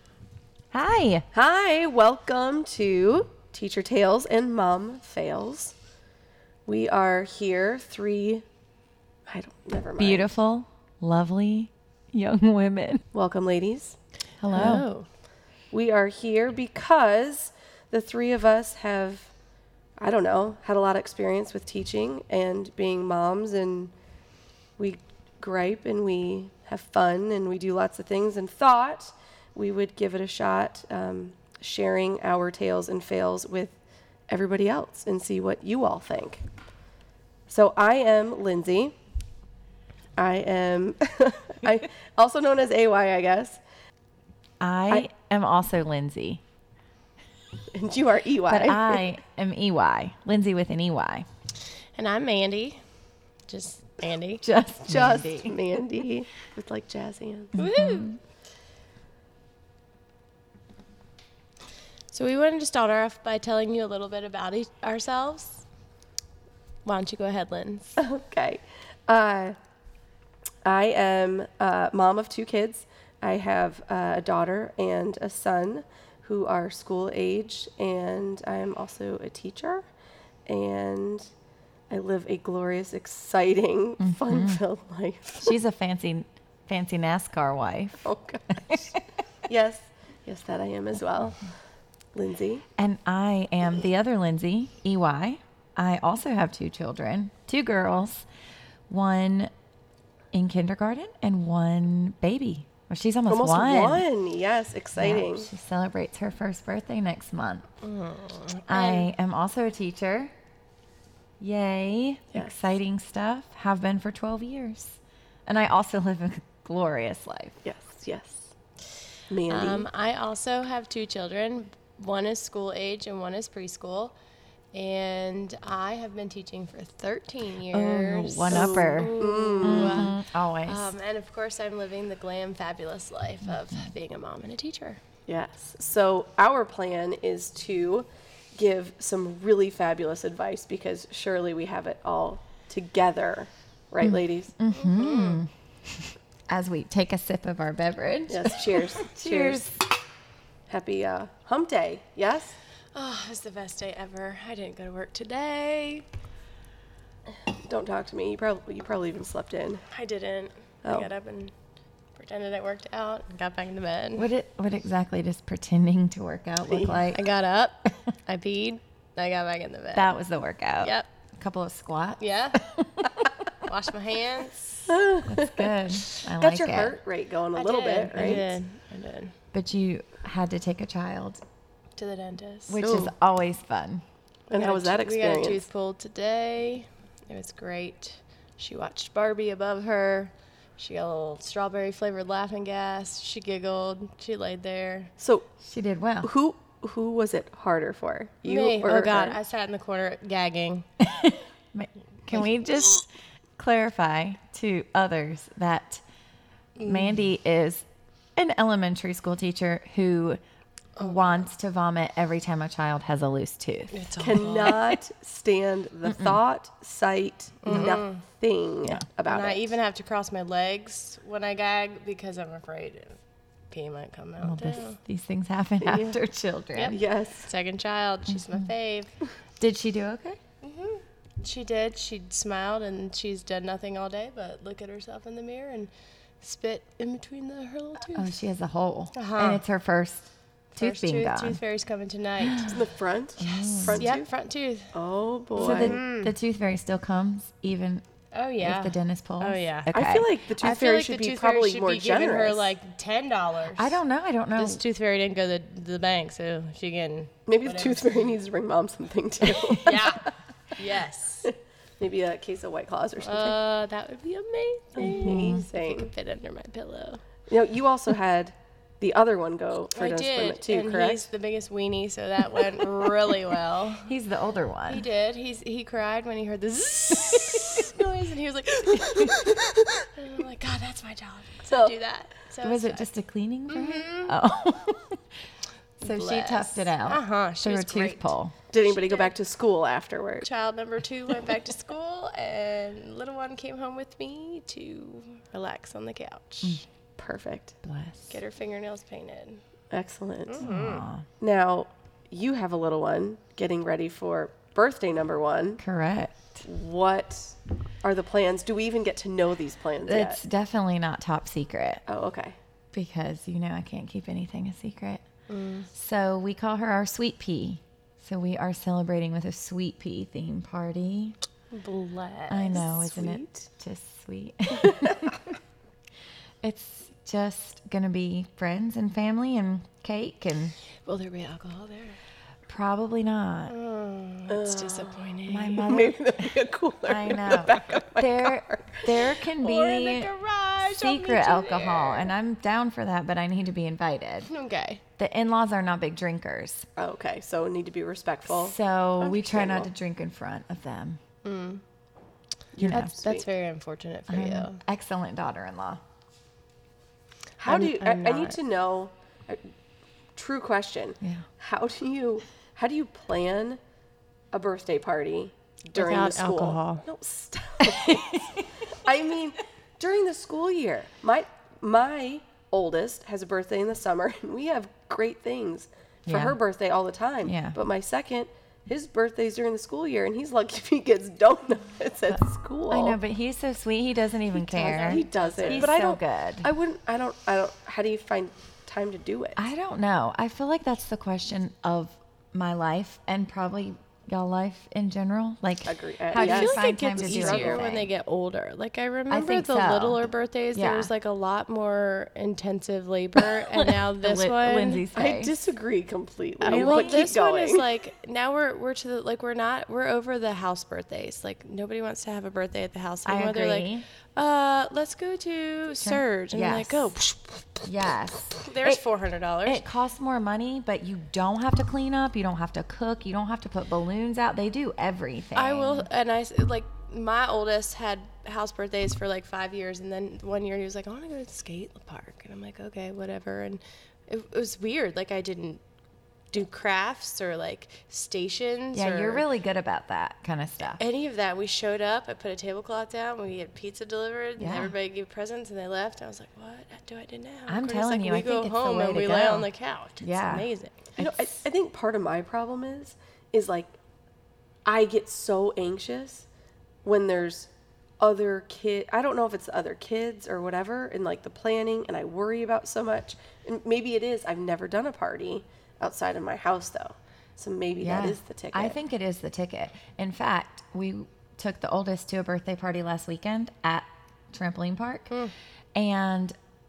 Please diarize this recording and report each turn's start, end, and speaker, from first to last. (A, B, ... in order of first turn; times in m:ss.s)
0:00.7-0:01.2 A
0:01.3-0:05.7 B
0:06.6-0:08.4 B
0:09.3-0:10.3 B
0:10.0-0:13.0 A
0:13.1-0:14.0 B
0:14.4-0:14.9 A
0:14.5-0:15.1 C
0:15.7-0:19.3 B
0:20.0-0:23.9 B
0:24.8-0:33.8 B
0:34.3-0:36.4 B
0:37.5-0:38.9 B
0:40.2-0:43.6 B
0:44.6-0:46.4 A
0:47.7-0:49.0 B
0:48.5-0:51.2 A
0:52.0-0:52.8 C
0:53.5-0:54.4 C
0:54.4-0:55.6 A
0:54.9-0:57.6 B
0:57.6-0:58.2 C
0:57.6-0:58.1 A
1:02.1-1:05.6 C
1:06.8-1:08.0 C
1:08.0-1:09.6 B
1:10.6-1:19.8 B
1:20.4-1:21.3 B
1:21.9-1:25.6 B
1:24.0-1:24.6 A
1:25.4-1:29.0 A
1:28.0-1:31.4 B
1:32.1-1:32.6 B
1:32.8-1:38.2 A
1:38.9-1:39.5 A
1:40.3-1:44.0 A
1:43.3-1:45.5 B
1:45.0-1:47.6 A
1:47.8-1:49.1 C
1:48.7-1:50.3 A
1:51.4-1:57.6 A
1:57.6-1:58.5 B
1:59.3-1:59.9 B
1:59.5-2:04.1 C
2:04.7-2:15.0 C
2:07.7-2:10.9 A
2:08.5-2:10.1 B
2:15.3-2:24.5 B
2:24.0-2:29.8 A
2:24.8-2:25.4 C
2:28.3-2:29.6 B
2:30.7-2:32.6 B
2:32.9-2:36.0 C
2:37.6-2:39.8 B
2:39.9-2:41.5 C
2:40.8-2:41.1 B
2:42.1-2:44.3 C
2:44.2-2:47.2 A
2:47.1-2:50.1 C
2:49.9-2:53.3 A
2:50.8-2:51.1 C
2:52.2-2:52.6 C
2:53.6-2:54.9 C
2:54.9-2:55.7 B
2:55.2-2:56.9 A
2:56.4-2:58.6 B
2:57.5-2:59.4 C
2:59.5-3:01.4 A
3:02.0-3:02.8 C
3:02.7-3:04.0 A
3:02.8-3:03.1 B
3:04.5-3:15.1 C
3:04.5-3:05.6 B
3:15.2-3:15.4 B
3:15.6-3:16.3 A
3:16.2-3:19.4 B
3:18.4-3:20.9 C
3:21.0-3:26.0 A
3:26.8-3:27.1 C
3:26.8-3:27.8 A
3:28.4-3:30.4 A
3:31.0-3:34.1 A
3:31.0-3:31.4 C
3:33.9-3:35.0 C
3:34.2-3:39.8 B
3:36.0-3:36.4 A
3:37.6-3:38.2 C
3:37.7-3:38.0 A
3:39.3-3:43.2 C
3:43.7-3:45.0 C
3:44.4-3:47.0 A
3:45.8-3:46.2 B
3:46.7-3:49.1 C
3:46.9-3:47.5 B
3:48.3-3:48.7 A
3:49.6-3:50.4 A
3:50.6-3:58.3 C
3:58.1-4:01.6 A
3:59.1-3:59.6 C
4:00.7-4:02.8 C
4:02.4-4:02.8 A
4:02.6-4:04.3 B
4:03.4-4:04.1 A
4:03.8-4:04.9 C
4:04.9-4:06.0 B
4:05.6-4:06.3 C
4:05.6-4:08.0 A
4:08.3-4:09.9 C
4:08.6-4:10.3 A
4:09.9-4:12.7 B
4:10.6-4:14.0 C
4:13.8-4:14.8 A
4:14.6-4:18.3 C
4:17.5-4:20.3 B
4:19.6-4:21.5 C
4:21.4-4:23.6 B
4:23.2-4:27.2 C
4:25.0-4:26.1 B
4:25.0-4:25.6 A
4:27.5-4:31.3 B
4:30.0-4:34.1 C
4:32.8-4:33.3 B
4:34.0-4:35.0 A
4:34.9-4:43.1 C
4:39.1-4:39.5 A
4:41.7-4:42.0 B
4:42.6-4:45.2 A
4:43.7-4:44.4 C
4:46.0-4:48.5 A
4:46.0-4:49.3 C
4:48.7-4:50.5 B
4:50.4-4:56.8 C
4:57.2-4:57.8 B
4:57.8-4:58.4 A
4:58.3-4:59.6 C
4:59.9-5:00.6 B
5:00.5-5:01.0 C
5:00.6-5:01.2 A
5:01.4-5:05.8 B
5:05.8-5:06.6 A
5:06.6-5:10.4 B
5:10.0-5:12.0 A
5:12.0-5:12.6 B
5:12.9-5:15.2 A
5:15.5-5:15.9 C
5:15.9-5:21.4 A
5:21.7-5:23.4 C
5:22.5-5:25.5 A
5:23.1-5:23.4 B
5:24.8-5:25.3 B
5:26.6-5:30.7 A
5:31.0-5:32.2 C
5:32.7-5:33.7 A
5:33.7-5:36.0 C
5:34.5-5:35.3 B
5:35.5-5:40.3 A
5:35.8-5:39.3 B
5:39.6-5:42.3 C
5:40.9-5:44.5 A
5:44.5-5:45.0 C
5:45.2-5:46.9 A
5:47.0-5:49.9 B
5:48.5-5:51.2 A
5:51.4-5:51.8 C
5:52.7-5:53.4 B
5:52.8-5:53.1 A
5:52.9-5:54.8 C
5:54.3-5:56.0 A
5:57.6-5:59.7 B
5:57.6-5:58.6 C
6:00.4-6:03.8 B
6:04.5-6:23.2 B
6:05.9-6:07.0 C
6:07.8-6:08.6 A
6:16.2-6:16.6 A
6:17.4-6:17.8 A
6:22.3-6:26.7 A
6:24.5-6:29.6 B
6:24.8-6:25.9 C
6:29.6-6:38.1 A
6:35.8-6:37.9 B
6:36.3-6:45.0 C
6:39.3-6:41.1 A
6:43.6-6:45.5 A
6:45.1-6:47.8 B
6:46.6-6:59.8 C
6:46.6-6:47.3 A
6:53.2-6:54.0 A
6:56.0-6:57.1 A
6:57.8-6:59.0 A
6:59.6-7:06.1 A
7:05.5-7:15.8 C
7:16.5-7:19.4 C
7:18.9-7:21.0 A
7:21.0-7:31.1 C
7:24.6-7:24.9 A
7:27.7-7:29.7 A
7:30.2-7:30.7 A
7:31.2-7:33.9 B
7:31.2-7:31.5 A
7:34.8-7:36.5 B
7:37.0-7:49.0 B
7:48.0-7:55.3 A
7:55.9-7:56.5 A